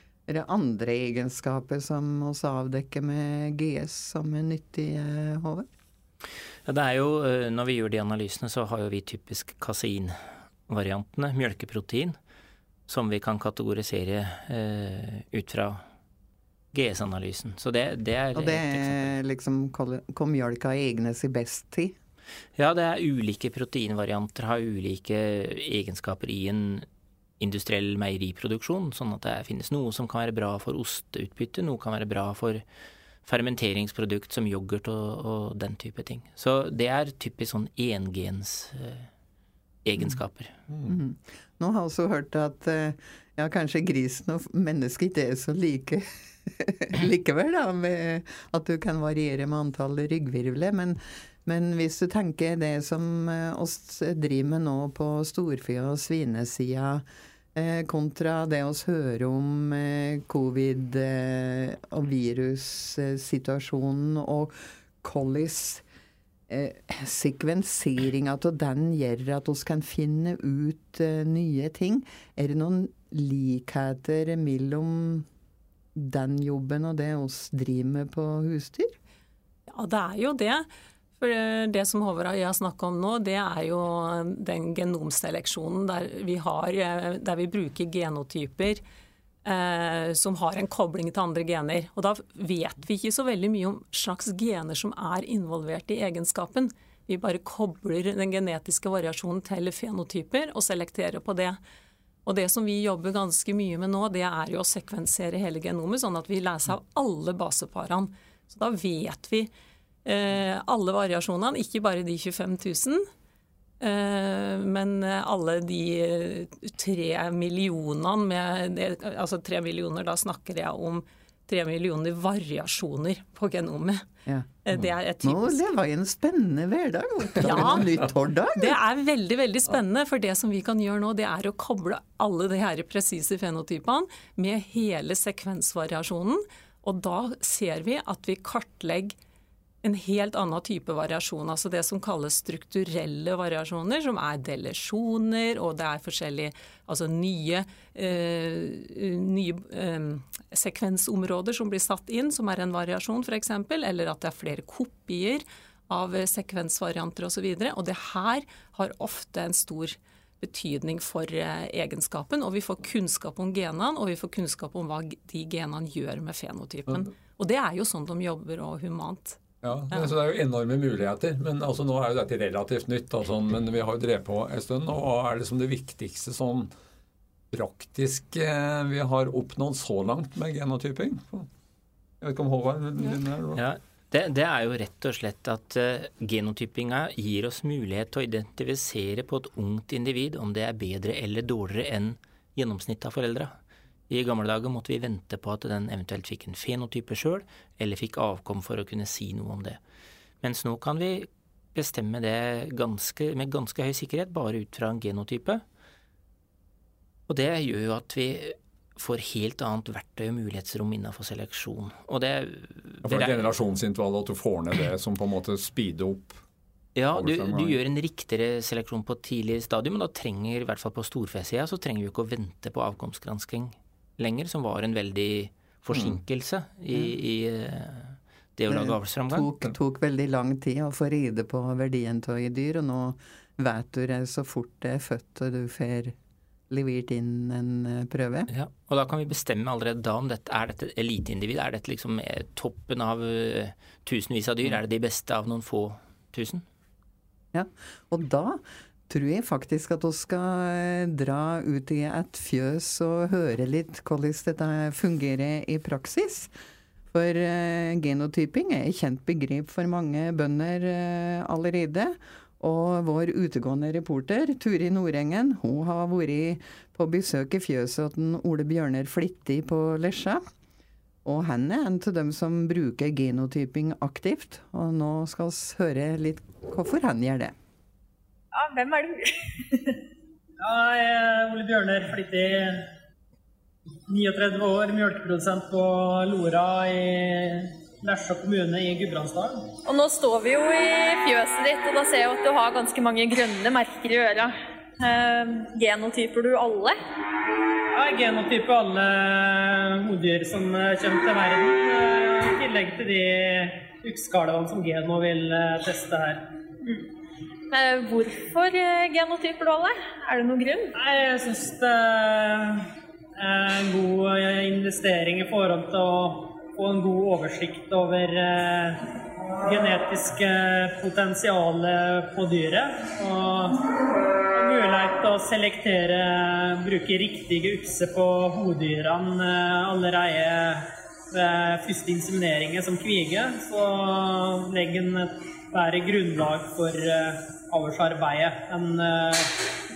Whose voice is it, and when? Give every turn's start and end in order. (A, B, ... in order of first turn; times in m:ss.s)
0:00.3-0:05.7 A
0:06.7-0:12.2 B
0:12.9-0:15.8 B
0:16.7-0:19.1 B
0:18.4-0:22.0 A
0:22.6-0:26.9 B
0:27.4-0:32.6 B
0:33.2-0:39.1 B
0:39.8-0:40.5 B
0:40.7-0:41.0 C
0:40.9-1:05.8 A
1:06.5-1:15.3 A
1:16.0-1:19.0 A
1:19.7-1:20.7 D
1:21.2-1:28.8 D
1:29.4-1:41.6 D
1:42.2-1:49.5 D
1:50.0-1:53.1 D
1:53.8-2:04.0 D
2:04.6-2:05.6 D
2:05.2-2:08.8 A
2:07.4-2:07.9 D
2:08.5-2:19.2 D
2:19.8-2:49.4 D
2:49.6-2:56.7 C
2:57.5-3:01.5 C
3:02.2-3:03.6 C
3:03.6-3:13.5 B
3:14.1-3:19.8 B
3:20.4-3:25.6 B
3:27.3-3:33.5 B
3:33.0-3:36.4 C
3:37.0-3:49.5 B
3:37.1-3:37.8 C
3:45.9-3:46.2 C
3:48.7-3:56.2 A
3:56.7-3:58.5 A
3:58.5-4:06.6 B
4:07.5-4:16.5 A
4:17.1-4:30.4 A
4:31.2-4:37.5 A
4:38.5-4:40.0 E
4:40.6-4:42.9 F
4:44.1-4:49.7 F
4:49.9-4:57.0 E
4:57.9-5:06.4 F
5:07.7-5:10.9 E
5:11.0-5:19.0 F
5:19.6-5:23.8 F
5:24.5-5:39.6 F